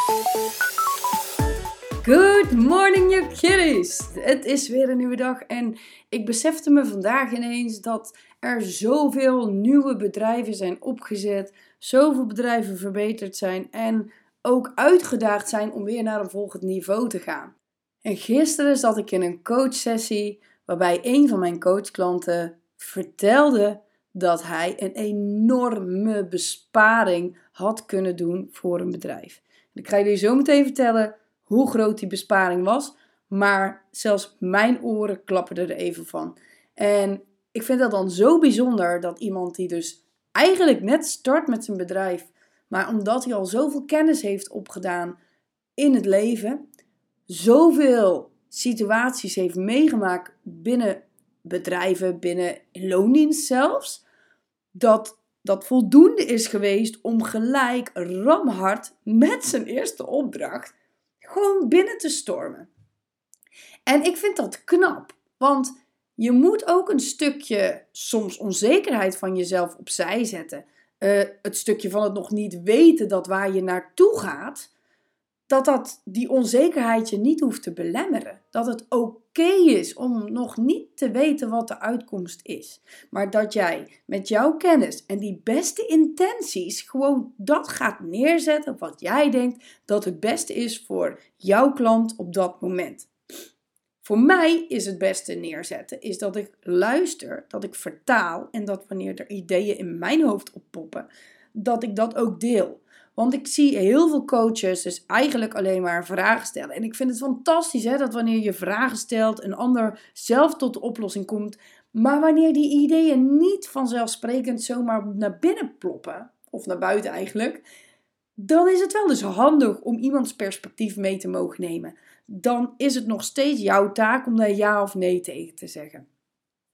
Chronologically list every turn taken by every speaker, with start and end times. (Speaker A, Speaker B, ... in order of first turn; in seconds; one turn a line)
Speaker A: 2.0-45.2
Speaker A: 45.8-46.6
Speaker A: 47.3-54.0
Speaker A: 54.7-62.7
Speaker A: 63.9-74.7
Speaker A: 75.5-93.1
Speaker A: 94.0-117.6
Speaker A: 118.4-126.0